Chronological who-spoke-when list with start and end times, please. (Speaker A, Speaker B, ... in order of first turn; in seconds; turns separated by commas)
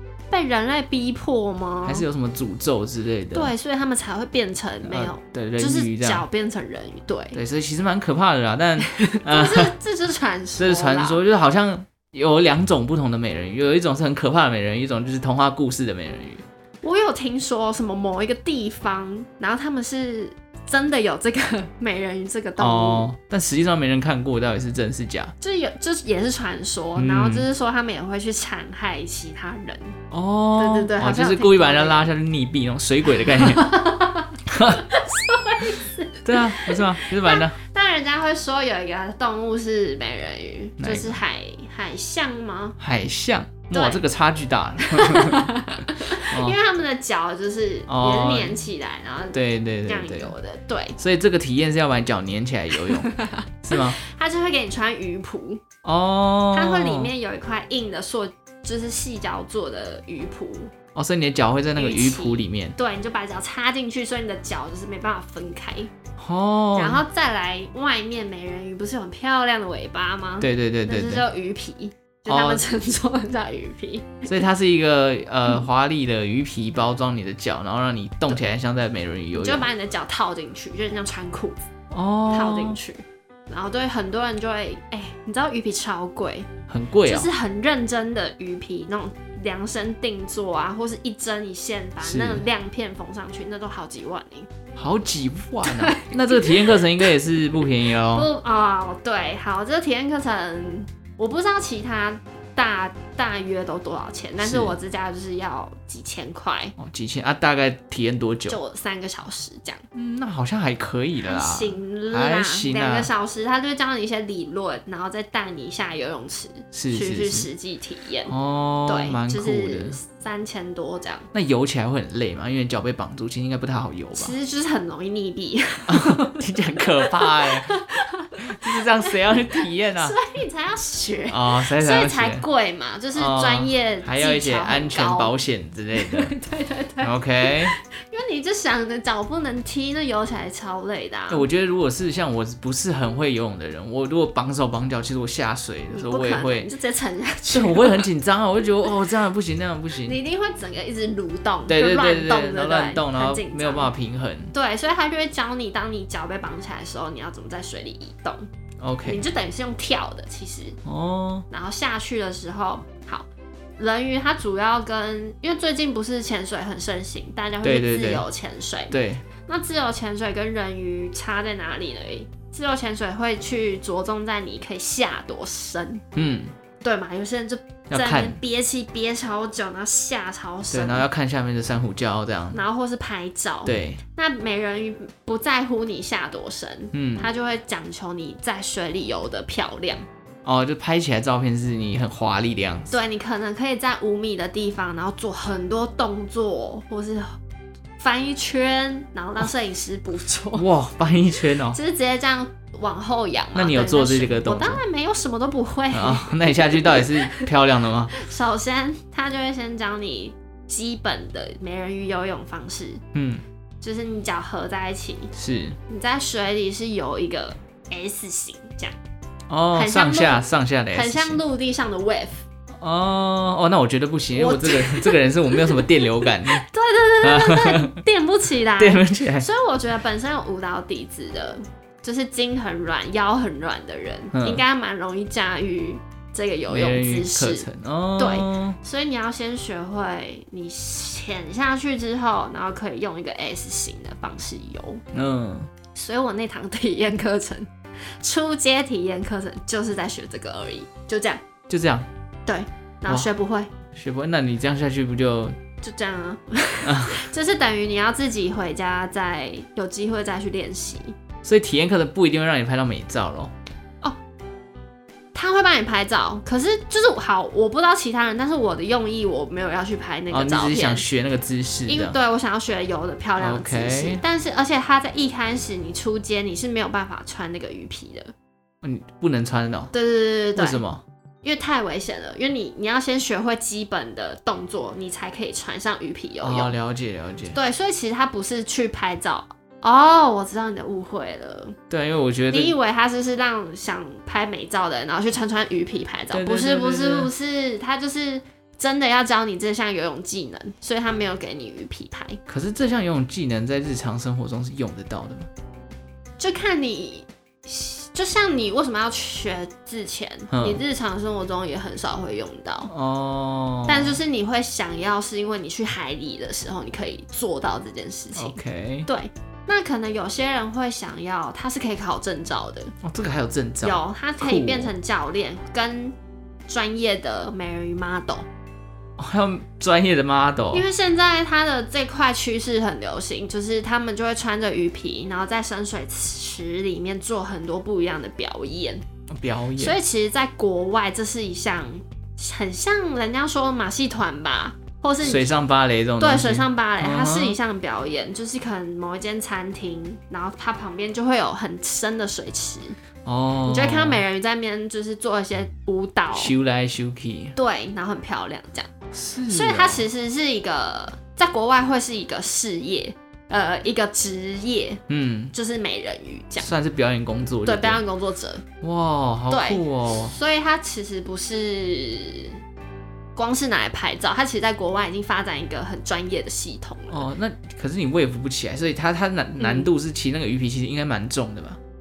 Speaker A: 0.3-2.0, Speaker B: 1.8-3.5, Speaker A: 3.3-7.4, Speaker B: 4.8-6.2, Speaker B: 7.3-9.7, Speaker A: 8.8-11.2, Speaker B: 10.6-16.4, Speaker A: 16.8-23.1, Speaker B: 22.6-25.3, Speaker A: 25.4-29.9, Speaker B: 27.0-27.5, Speaker B: 30.1-33.7, Speaker A: 30.6-32.1, Speaker A: 33.2-42.8, Speaker B: 34.5-34.9, Speaker B: 36.2-37.5, Speaker B: 40.8-41.2, Speaker B: 42.8-45.5, Speaker A: 43.7-44.0, Speaker A: 44.8-51.0, Speaker B: 46.1-46.6, Speaker B: 47.9-48.6, Speaker B: 49.3-50.3, Speaker B: 51.0-54.0, Speaker A: 52.8-55.6, Speaker B: 55.8-57.1, Speaker A: 56.5-60.7, Speaker B: 60.9-62.8, Speaker A: 61.8-65.9, Speaker B: 66.2-67.0, Speaker A: 66.7-74.3, Speaker B: 70.4-71.2, Speaker B: 72.3-72.6, Speaker B: 74.2-79.7, Speaker A: 79.3-81.6, Speaker B: 81.9-82.8, Speaker A: 82.3-86.5, Speaker B: 86.7-87.3, Speaker A: 87.0-94.5, Speaker B: 92.0-92.4, Speaker B: 94.8-98.3, Speaker A: 95.6-96.9, Speaker A: 98.1-106.7, Speaker B: 104.4-104.8, Speaker B: 106.8-108.6, Speaker A: 108.5-109.8, Speaker B: 109.9-113.1, Speaker A: 111.2-118.3, Speaker B: 116.7-117.5, Speaker B: 118.3-120.0, Speaker A: 118.8-121.3, Speaker B: 121.3-124.3, Speaker A: 124.2-135.3, Speaker B: 125.9-127.7, Speaker B: 128.4-130.2, Speaker B: 131.3-132.4, Speaker B: 133.1-136.3, Speaker A: 135.9-141.4, Speaker B: 137.0-137.8, Speaker B: 141.3-146.7, Speaker A: 145.9-148.1, Speaker B: 147.4-150.2, Speaker A: 150.0-153.9, Speaker B: 151.7-154.5, Speaker A: 154.5-158.4, Speaker B: 158.8-159.2, Speaker A: 159.0-160.8, Speaker B: 160.8-161.4, Speaker A: 161.5-163.3, Speaker A: 163.8-176.0, Speaker B: 167.6-168.2, Speaker B: 168.9-169.2, Speaker B: 176.1-176.5, Speaker A: 176.8-181.1, Speaker B: 177.9-178.4, Speaker B: 180.7-182.6, Speaker A: 182.5-190.0, Speaker B: 183.6-184.0, Speaker B: 186.9-187.3, Speaker B: 190.4-192.9, Speaker A: 192.9-197.3, Speaker A: 198.0-200.7, Speaker B: 200.5-201.8, Speaker A: 201.7-207.5, Speaker B: 203.5-204.8, Speaker B: 205.9-208.2, Speaker A: 208.1-213.0, Speaker B: 213.1-213.4, Speaker A: 213.8-215.3, Speaker B: 215.3-215.8, Speaker A: 215.9-218.9, Speaker B: 219.5-221.4, Speaker A: 219.7-222.4, Speaker B: 222.8-226.6, Speaker A: 224.3-245.0, Speaker B: 227.2-228.0, Speaker B: 228.8-229.5, Speaker B: 234.3-234.6, Speaker B: 236.7-238.8, Speaker B: 245.1-245.7, Speaker A: 245.9-251.4, Speaker B: 251.7-252.1, Speaker A: 252.4-253.7, Speaker B: 253.9-255.6, Speaker A: 255.8-261.1, Speaker B: 256.8-257.2, Speaker B: 261.4-263.5, Speaker A: 265.3-271.1, Speaker B: 270.3-272.2, Speaker A: 271.9-278.3, Speaker B: 273.4-274.2, Speaker B: 278.8-279.9, Speaker A: 279.9-280.8, Speaker B: 280.6-281.0, Speaker A: 281.4-286.7, Speaker B: 286.4-287.6, Speaker A: 287.5-291.8, Speaker B: 291.9-292.8, Speaker A: 292.5-302.4, Speaker B: 296.3-297.3, Speaker B: 302.5-305.5, Speaker A: 306.4-312.9, Speaker B: 310.5-310.8, Speaker B: 312.9-314.2, Speaker A: 313.9-322.9, Speaker B: 318.3-319.1, Speaker B: 323.0-324.9, Speaker A: 323.8-326.1, Speaker A: 326.7-328.5, Speaker B: 329.2-330.9, Speaker A: 330.7-339.0, Speaker B: 339.3-339.9, Speaker A: 339.8-345.6, Speaker B: 345.2-347.6, Speaker A: 346.2-353.0, Speaker B: 353.2-354.2, Speaker A: 353.6-356.5, Speaker B: 356.3-357.6, Speaker A: 357.6-358.9, Speaker B: 359.1-360.1, Speaker A: 359.5-365.0, Speaker B: 365.1-365.5, Speaker A: 365.5-366.7, Speaker B: 366.6-368.0, Speaker A: 367.6-368.6, Speaker B: 368.8-370.3, Speaker A: 369.5-372.6, Speaker A: 373.3-377.3, Speaker B: 377.1-381.8, Speaker A: 379.6-379.9